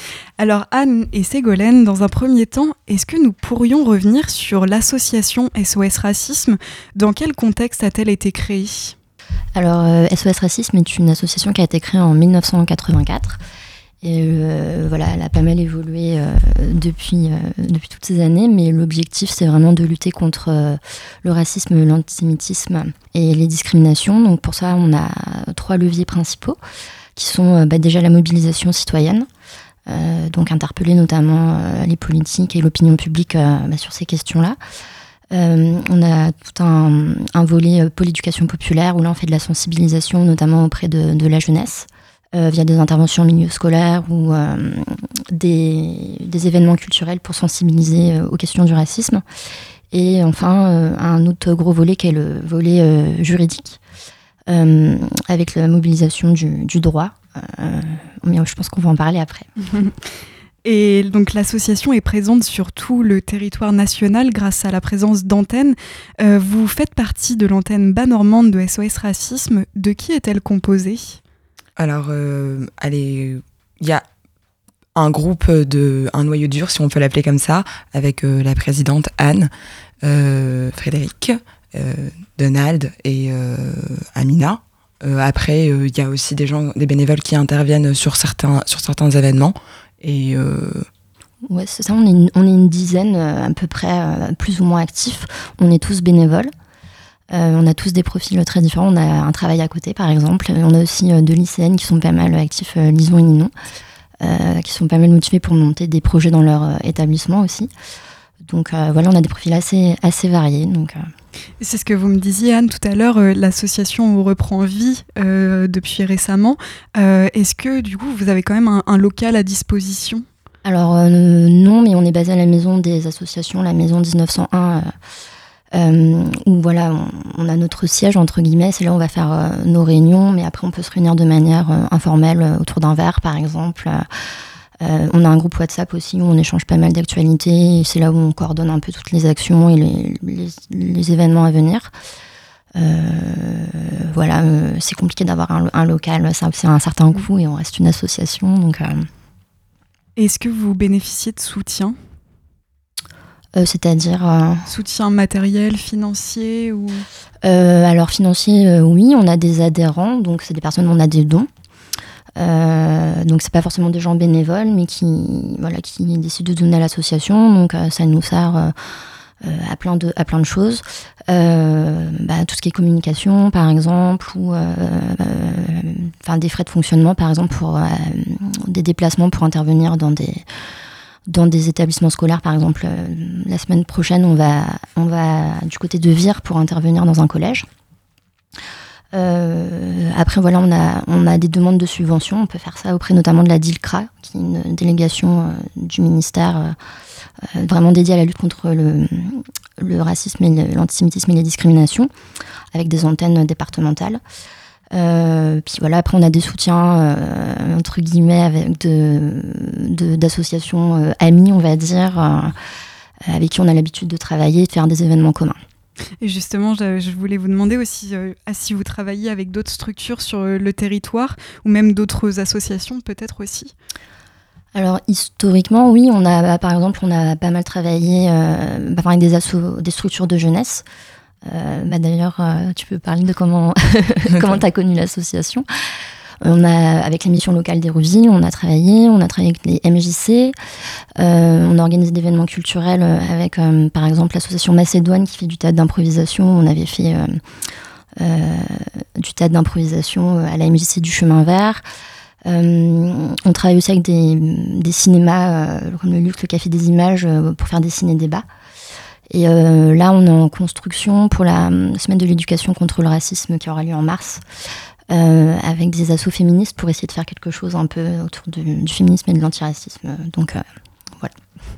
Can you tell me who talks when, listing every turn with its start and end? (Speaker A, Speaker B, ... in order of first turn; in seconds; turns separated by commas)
Speaker A: 0.4-8.9, Speaker B: 9.5-13.4, Speaker B: 14.0-26.6, Speaker B: 27.2-29.3, Speaker B: 29.9-34.6, Speaker B: 35.3-49.2, Speaker B: 49.9-53.8, Speaker B: 54.5-59.5, Speaker A: 60.6-71.2, Speaker C: 71.8-74.0, Speaker C: 75.0-79.5, Speaker C: 80.0-90.9, Speaker B: 91.5-96.5, Speaker B: 97.3-103.5, Speaker B: 104.2-107.7, Speaker B: 108.4-111.0, Speaker A: 111.6-120.2, Speaker B: 120.6-124.9, Speaker B: 125.7-134.1, Speaker B: 134.8-141.9, Speaker B: 142.8-149.1, Speaker A: 150.2-151.9, Speaker B: 153.6-154.7, Speaker A: 154.7-157.1, Speaker B: 157.4-161.5, Speaker B: 162.4-168.7, Speaker B: 169.4-180.4, Speaker B: 181.3-187.7, Speaker B: 189.1-196.8, Speaker B: 197.4-202.1, Speaker B: 202.7-204.2, Speaker B: 204.9-212.6, Speaker B: 213.3-215.6, Speaker A: 216.2-223.7, Speaker B: 224.7-230.8, Speaker B: 231.4-235.7, Speaker B: 236.4-240.6, Speaker B: 241.2-247.4, Speaker B: 248.2-251.8, Speaker B: 252.4-258.4, Speaker B: 259.3-264.4, Speaker B: 265.1-270.6